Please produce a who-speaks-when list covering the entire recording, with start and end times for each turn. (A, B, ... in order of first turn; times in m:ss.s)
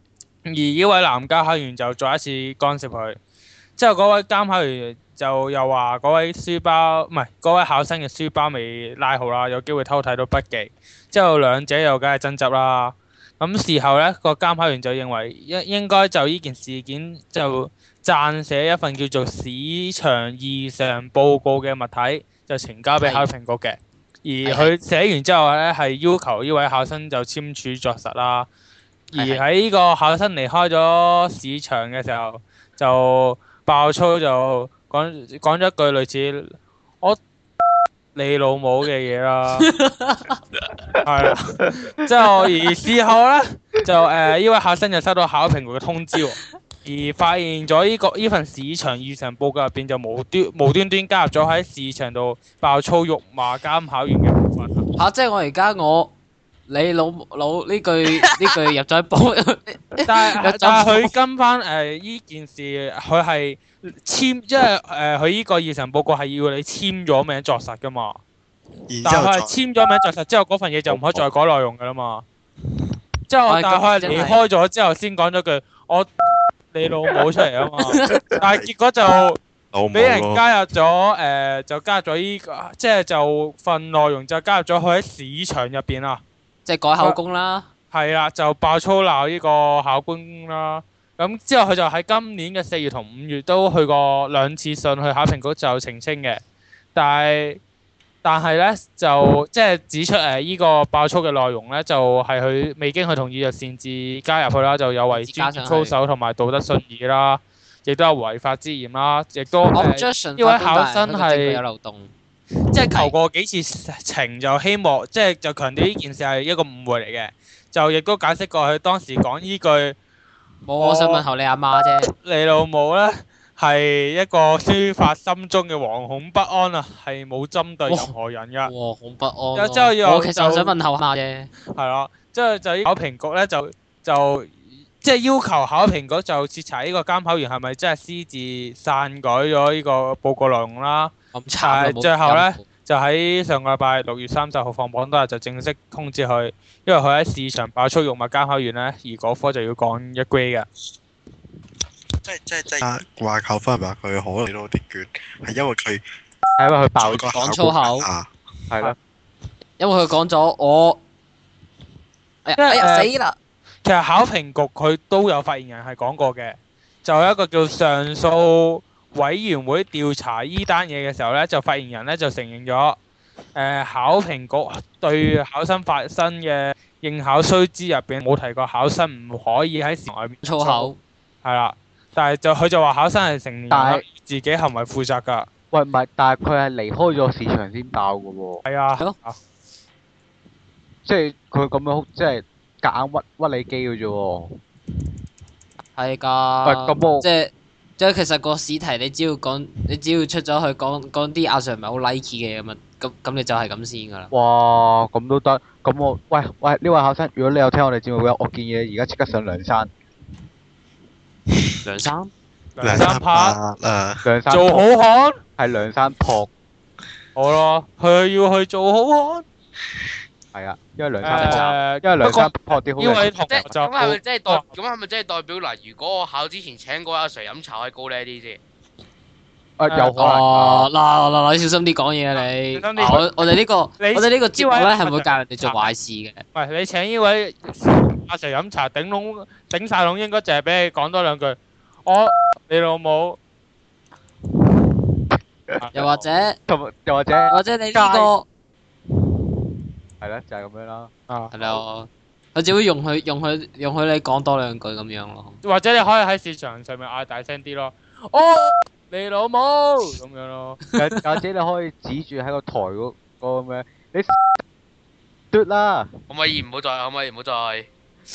0:00.5-0:03.2 A
0:03.8-0:28.5 A
0:23.0-0:23.3 B
0:24.4-0:24.7 B
0:29.1-0:37.2 A
0:29.1-0:29.4 B
0:38.2-0:39.7 A
0:39.6-0:40.4 B
0:41.0-0:54.8 A
0:55.0-0:56.1 B
0:56.7-1:01.1 B
1:00.0-1:08.2 A
1:08.9-1:09.5 C
1:09.0-1:12.2 A
1:10.9-1:11.3 C
1:13.3-1:16.1 A
1:13.5-1:14.4 B
1:16.7-1:19.4 A
1:17.8-1:18.4 B
1:18.4-1:18.7 C
1:19.7-1:20.4 C
1:19.9-1:26.2 A
1:26.7-1:27.7 B
1:27.9-1:36.4 A
1:37.0-1:37.6 A
1:38.2-1:51.6 A
1:45.1-1:46.0 B
1:49.7-1:52.1 B
1:52.7-2:00.0 A
1:52.7-1:53.1 B
2:00.6-2:02.1 B
2:00.8-2:01.2 A
2:02.1-2:08.7 A
2:07.9-2:08.1 B
2:08.6-2:11.5 B
2:09.5-2:10.8 A
2:11.7-2:30.7 A
2:21.3-2:22.7 B
2:32.2-2:36.0 C
2:36.6-2:37.3 D
2:37.0-2:38.3 C
2:37.3-2:38.1 B
2:38.7-2:39.0 D
2:39.8-2:41.0 B
2:42.4-2:43.4 B
2:42.6-2:43.1 A
2:43.8-2:53.0 A
2:53.5-3:00.9 A
3:00.4-3:01.0 B
3:01.4-3:05.5 A
3:03.7-3:04.0 D
3:05.7-3:08.6 D
3:08.6-3:09.4 A
3:11.0-3:14.6 D
3:16.0-3:24.3 B
3:16.6-3:17.3 D
3:24.3-3:29.9 D
3:31.8-3:32.3 B
3:32.8-3:33.6 A
3:32.8-3:34.3 C
3:34.2-3:34.8 D
3:34.5-3:35.4 A
3:35.6-3:36.5 D
3:37.4-3:39.4 A
3:40.5-3:43.6 D
3:41.2-3:44.6 A
3:41.3-3:41.8 B
3:43.5-3:48.6 E
3:49.8-3:50.9 D
3:49.9-3:50.2 A
3:50.1-3:56.4 B
3:52.4-3:53.5 A
3:54.0-3:55.9 A
3:56.5-4:03.4 A
4:05.8-4:06.1 A
4:05.9-4:06.6 B
4:06.7-4:08.3 D
4:07.5-4:08.4 B
4:10.2-4:11.1 D
4:11.5-4:15.6 B
4:15.6-4:20.8 A
4:20.9-4:21.2 B
4:21.0-4:24.4 D
4:25.5-4:26.1 D
4:26.3-4:27.9 E